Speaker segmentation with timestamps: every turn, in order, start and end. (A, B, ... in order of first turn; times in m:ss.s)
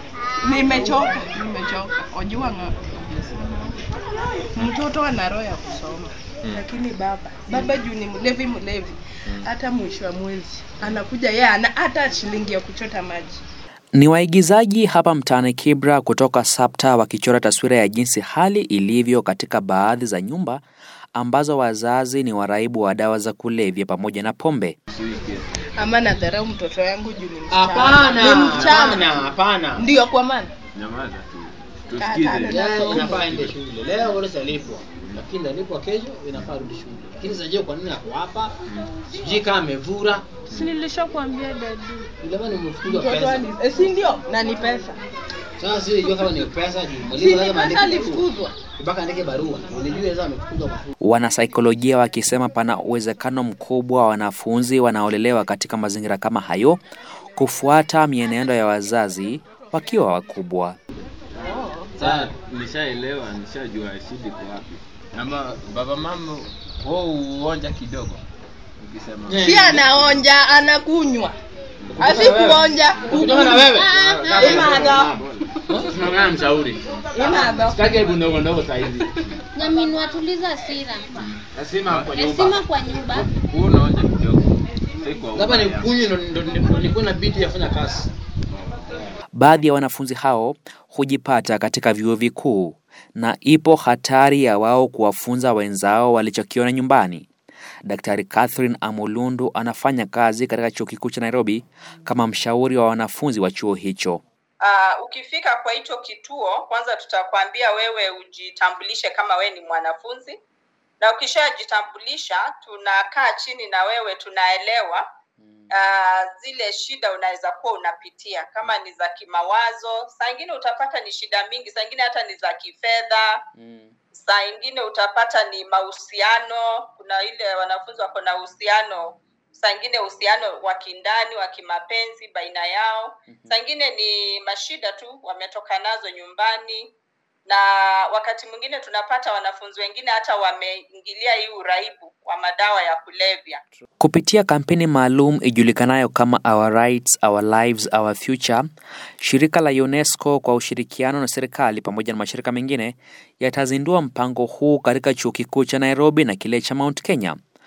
0:00.4-0:03.6 A
0:03.2-0:03.6 B
0:04.5-0:13.4 A
0:14.0-0:20.6 C
0:21.1-0:24.8 C
0:24.9-0:25.5 B
0:25.8-0:29.2 A
0:27.5-0:29.9 D
0:28.0-0:29.3 B
0:29.7-0:30.5 A
0:30.8-0:34.2 B
0:32.0-0:33.2 A
0:32.4-0:38.5 D
0:34.9-0:35.2 B
0:38.7-0:39.0 B
0:39.1-0:40.2 D
0:40.5-0:40.8 B
0:40.5-0:42.0 A
0:42.2-0:43.5 D
0:42.8-0:45.0 A
0:45.6-0:50.9 D
0:47.1-0:48.6 A
0:51.0-0:56.8 C
0:57.3-1:00.8 C
1:01.3-1:08.2 B
1:01.4-1:02.0 A
1:02.0-1:02.3 D
1:08.8-1:10.2 B
1:09.3-1:09.7 D
1:09.4-1:11.4 A
1:11.8-1:13.1 B
1:12.0-1:13.7 A
1:12.0-1:12.4 D
1:13.1-1:15.9 D
1:13.6-1:14.6 E
1:14.0-1:19.4 B
1:14.5-1:15.2 A
1:17.1-1:17.9 A
1:19.5-1:21.3 E
1:21.2-1:26.1 B
1:22.1-1:23.3 E
1:25.3-1:28.1 D
1:29.4-1:37.3 C
1:37.8-1:44.2 C
1:44.6-1:50.4 F
1:51.0-1:55.0 F
1:55.4-1:55.7 C
1:55.7-2:03.4 F
2:03.6-2:03.9 C
2:04.1-2:16.9 F
2:13.3-2:13.6 C
2:17.5-2:23.6 F
2:24.0-2:28.7 C
2:29.2-2:37.4 C